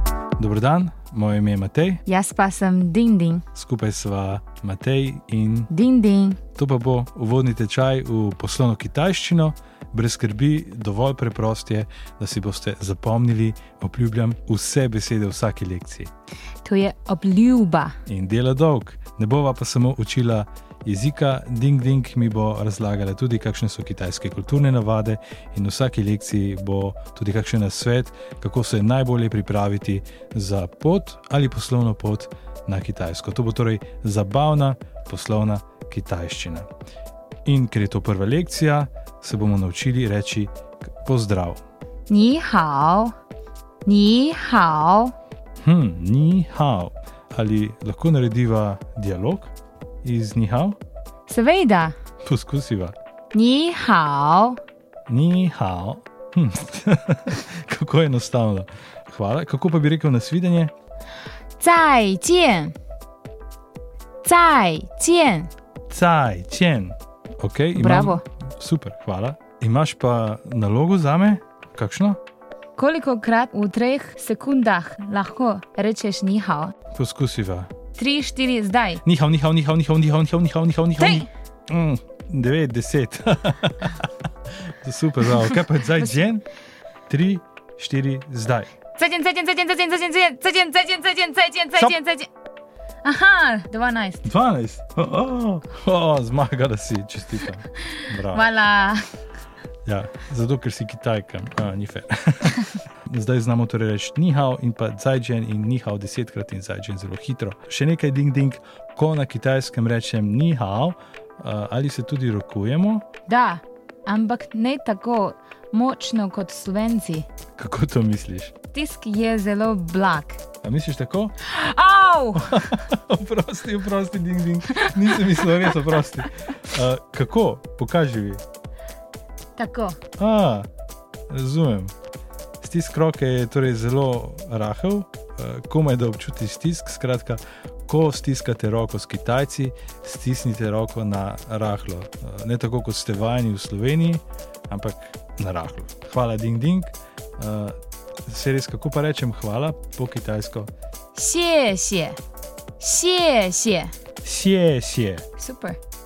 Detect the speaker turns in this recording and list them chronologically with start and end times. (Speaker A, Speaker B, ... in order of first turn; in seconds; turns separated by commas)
Speaker A: 0.4-2.0, Speaker B: 2.1-3.5, Speaker A: 3.5-5.7, Speaker B: 5.7-6.4, Speaker A: 6.5-16.1, Speaker B: 16.6-18.0, Speaker A: 18.1-36.7, Speaker A: 37.5-41.6, Speaker B: 42.1-43.1, Speaker B: 43.9-45.1, Speaker A: 45.6-49.5, Speaker A: 50.0-50.8, Speaker B: 51.3-51.9, Speaker A: 52.2-53.0, Speaker B: 53.3-54.6, Speaker A: 55.1-60.7, Speaker B: 61.6-62.8, Speaker B: 64.2-65.5, Speaker A: 65.9-72.2, Speaker B: 67.7-68.2, Speaker B: 72.8-76.7, Speaker A: 76.9-77.7, Speaker B: 78.0-79.0, Speaker A: 79.0-86.5, Speaker B: 81.0-81.3, Speaker A: 87.1-88.7, Speaker B: 89.0-92.3, Speaker B: 93.0-94.3, Speaker A: 94.2-98.5, Speaker B: 98.1-99.1, Speaker A: 99.9-113.1, Speaker B: 113.3-117.3, Speaker A: 117.6-118.5, Speaker B: 118.7-120.4, Speaker A: 120.6-121.4, Speaker B: 121.4-122.7, Speaker A: 122.4-128.4, Speaker B: 129.6-130.0, Speaker A: 130.2-130.7, Speaker A: 131.3-131.9, Speaker A: 132.6-150.7, Speaker B: 151.2-152.2, Speaker B: 152.8-153.9, Speaker A: 154.2-155.3, Speaker B: 155.4-155.8